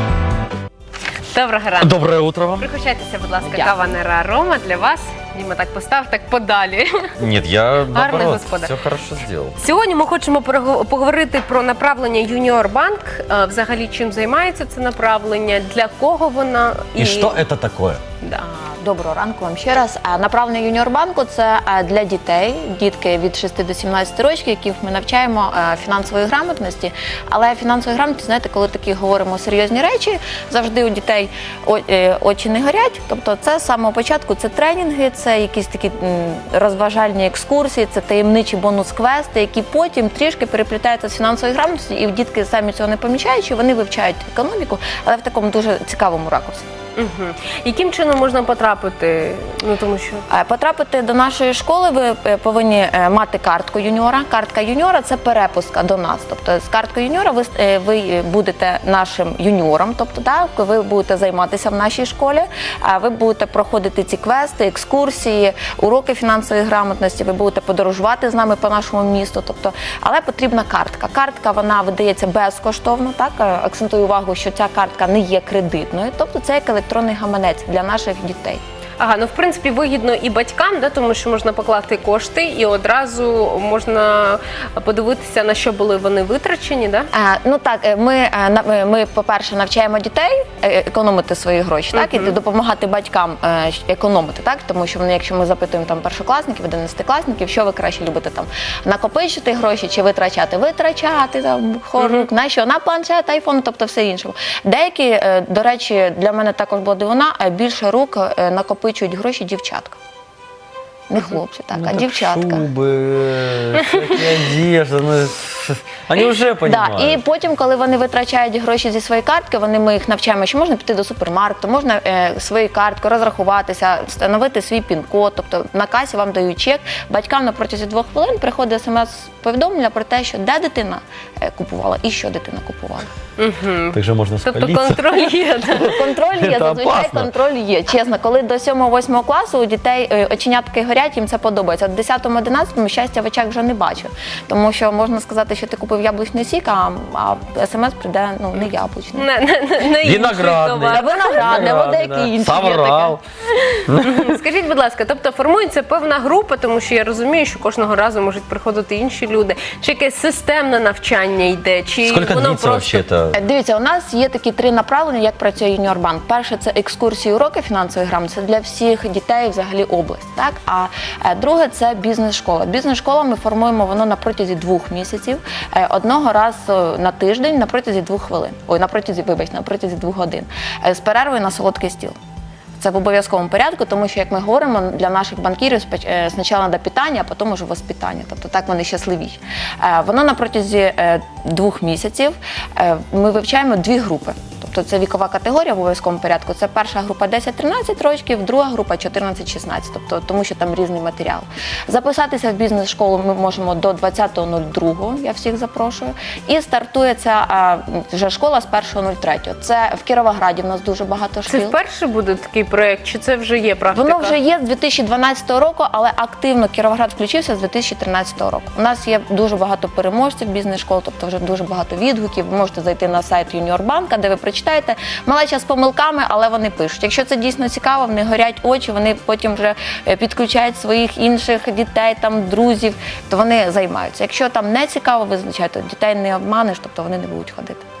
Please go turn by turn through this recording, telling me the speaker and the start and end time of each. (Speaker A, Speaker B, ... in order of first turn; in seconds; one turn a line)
Speaker A: 1.3-7.1
Speaker B: 1.8-2.6
Speaker B: 7.2-9.6
Speaker A: 7.9-8.8
Speaker A: 9.6-17.4
Speaker B: 17.0-18.0
Speaker C: 18.4-46.7
Speaker A: 47.0-50.2
Speaker C: 50.3-78.6
Speaker A: 79.0-87.1
Speaker C: 87.1-110.0
Speaker A: 91.9-92.3
Speaker A: 102.0-102.2
Speaker C: 111.1-112.7
Speaker B: 111.7-117.2
Speaker C: 116.6-133.1
Speaker A: 133.4-136.0
Speaker B: 133.9-137.3
Speaker C: 135.8-149.3
Speaker A: 149.1-151.7
Speaker B: 150.0-153.2
Speaker C: 150.9-153.2
Speaker A: 153.6-163.0
Speaker B: 153.8-154.3
Speaker B: 162.0-163.4
Speaker C: 163.3-182.2
Speaker C: 182.8-211.8
Speaker A: 211.5-214.3
Speaker C: 213.9-237.8